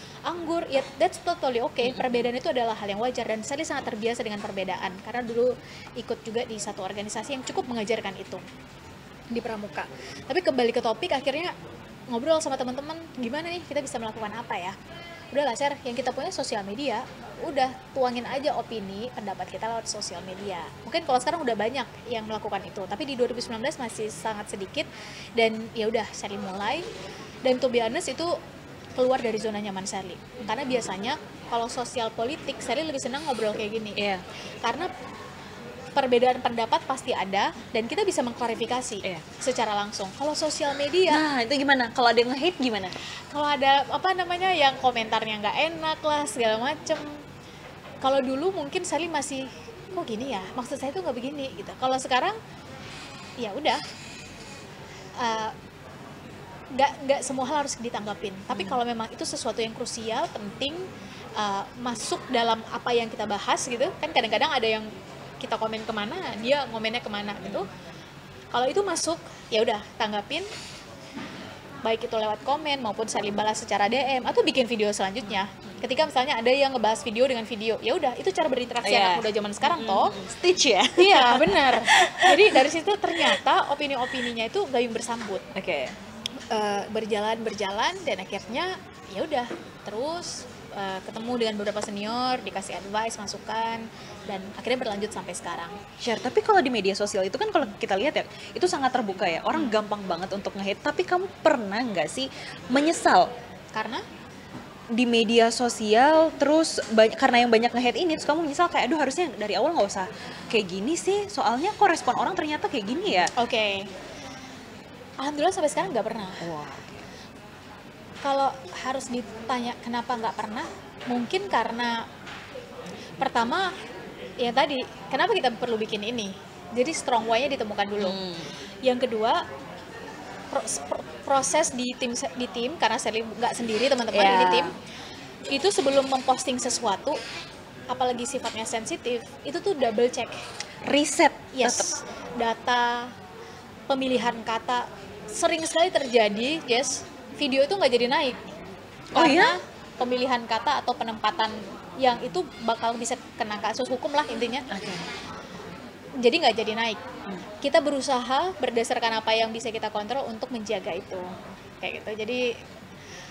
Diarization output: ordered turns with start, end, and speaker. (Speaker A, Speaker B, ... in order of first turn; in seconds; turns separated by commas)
Speaker A: 0.3-8.4, Speaker B: 1.8-2.2, Speaker A: 9.3-11.5, Speaker A: 12.1-14.8, Speaker A: 15.3-26.9, Speaker A: 27.4-28.4, Speaker A: 28.9-34.0, Speaker B: 34.0-34.2, Speaker A: 34.6-34.9, Speaker A: 35.9-41.2, Speaker B: 41.1-42.9, Speaker A: 43.3-47.2, Speaker A: 48.0-52.4, Speaker A: 53.4-53.8, Speaker A: 55.2-55.5, Speaker A: 56.7-60.9, Speaker B: 58.5-58.8, Speaker A: 61.4-64.9, Speaker A: 65.4-67.7, Speaker A: 68.5-70.5, Speaker A: 71.8-80.1, Speaker B: 78.8-82.6, Speaker A: 81.0-85.5, Speaker B: 85.5-85.9, Speaker A: 86.5-95.8, Speaker B: 96.0-103.3, Speaker A: 103.7-104.0, Speaker B: 104.9-113.3, Speaker A: 113.3-113.9, Speaker A: 115.2-116.5, Speaker B: 116.4-117.0, Speaker A: 118.2-122.0, Speaker A: 123.2-123.7, Speaker A: 124.4-128.2, Speaker B: 128.0-128.5, Speaker A: 128.8-129.4, Speaker A: 130.5-134.7, Speaker B: 134.1-134.7, Speaker A: 135.5-137.2, Speaker A: 137.9-140.4, Speaker B: 140.8-141.9, Speaker A: 141.5-143.1, Speaker A: 143.9-148.4, Speaker B: 149.1-149.6, Speaker A: 149.1-154.7, Speaker B: 154.7-155.1, Speaker A: 156.2-157.0, Speaker A: 157.6-162.6